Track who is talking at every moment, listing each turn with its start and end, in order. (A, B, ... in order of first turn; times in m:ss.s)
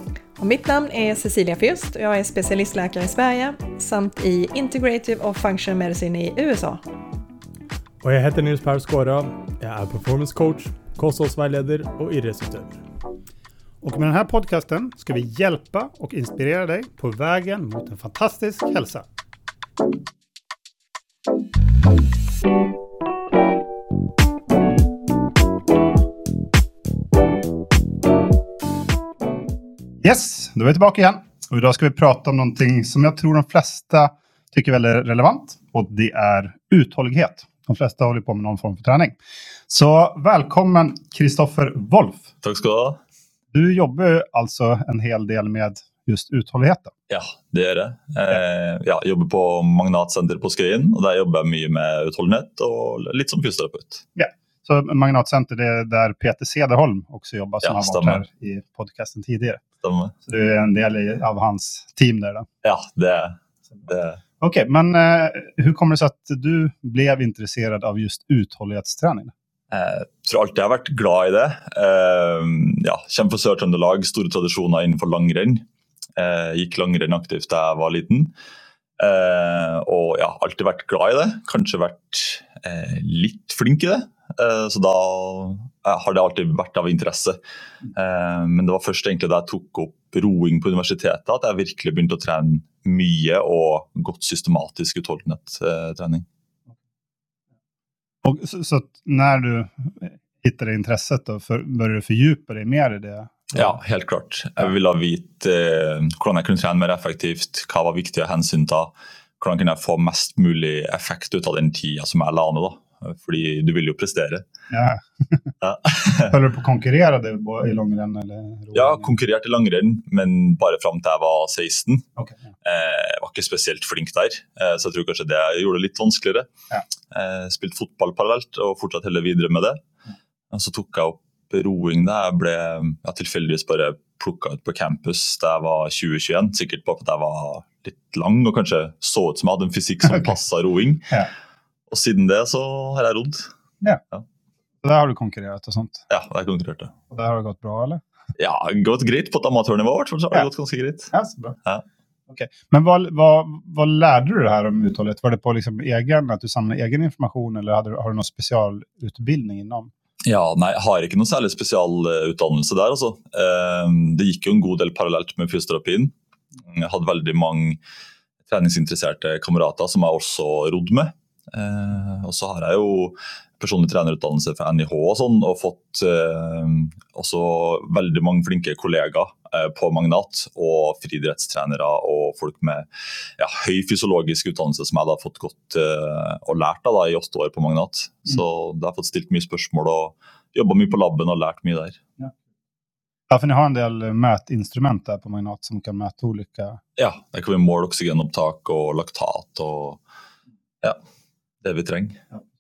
0:00.4-0:06.8 A
0:08.0-0:12.8 B
0:13.8-0:19.1 C
0:30.0-0:39.2 C
0:39.7-0:42.3 C
0:42.4-0:43.0 D
0:43.5-0:46.9 C
0:47.1-0:54.0 D
0:54.2-0:59.6 C
0:57.6-0:58.2 D
0:59.8-1:00.1 D
1:00.2-1:02.5 C
1:02.6-1:04.2 D
1:04.4-1:09.3 C
1:09.7-1:15.6 D
1:16.2-1:18.3 D
1:19.0-1:27.4 D
1:27.9-1:36.3 D
1:38.2-1:43.7 C
1:43.5-1:54.5 D
1:54.7-1:55.5 C
1:55.6-1:56.4 D
1:56.2-1:59.1 C
1:58.7-2:02.1 D
2:02.6-2:06.5 D
2:07.1-2:09.8 D
2:10.5-2:21.2 D
2:21.9-2:23.5 D
2:24.8-2:26.1 C
2:26.1-2:26.9 D
2:27.1-2:28.0 C
2:28.4-2:31.1 D
2:31.1-2:31.6 C
2:32.3-2:39.9 C
2:40.2-2:46.1 D
2:46.6-2:47.8 D
2:48.5-3:12.0 D
3:13.3-3:16.8 C
3:17.0-3:20.0 D
3:21.6-3:22.2 D